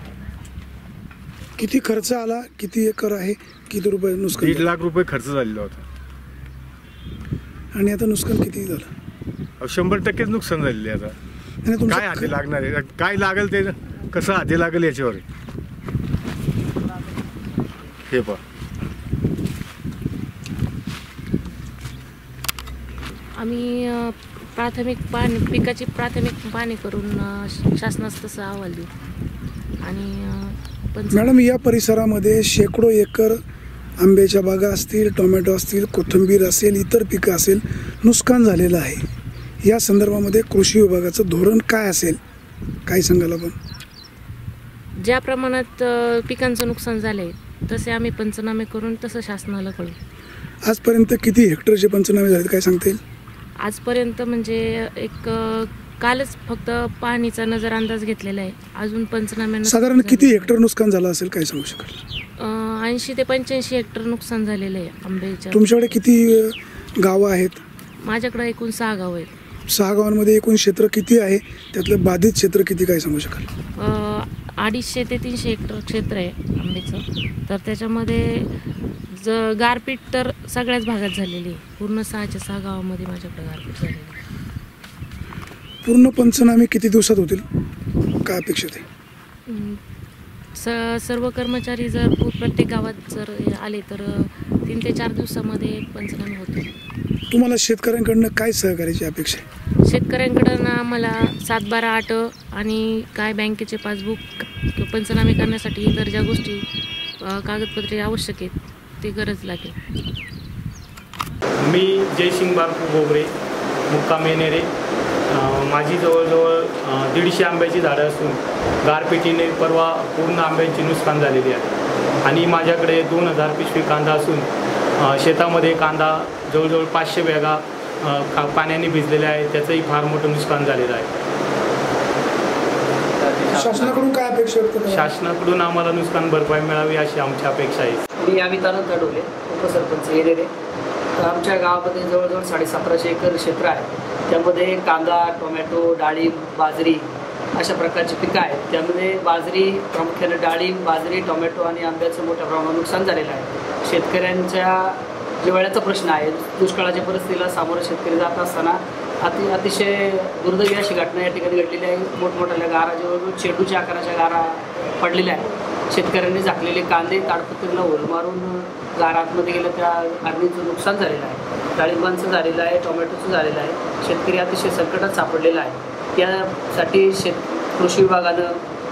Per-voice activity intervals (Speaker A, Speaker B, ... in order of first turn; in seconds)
Speaker A: 1.6-4.7, 7.7-8.9, 11.7-12.3, 31.1-33.4, 34.0-39.0, 39.6-42.2, 42.9-43.5, 50.6-53.0, 59.6-62.0, 65.5-67.6, 69.7-73.5, 85.8-87.4, 88.2-88.8, 97.3-99.4, 133.5-135.1
Speaker B: 4.3-5.8, 9.6-11.1, 11.9-15.2, 18.1-18.4
Speaker C: 23.4-28.9, 29.8-31.4, 45.0-50.0, 53.6-60.5, 62.4-66.0, 68.0-69.3, 73.8-84.2, 89.5-89.8, 90.5-96.7, 99.8-106.7, 107.2-109.7
Speaker D: 111.6-113.3, 113.9-114.7, 115.3-121.7, 122.2-131.1, 133.2-134.1, 134.9-138.0
Speaker E: 138.2-140.5, 141.2-178.6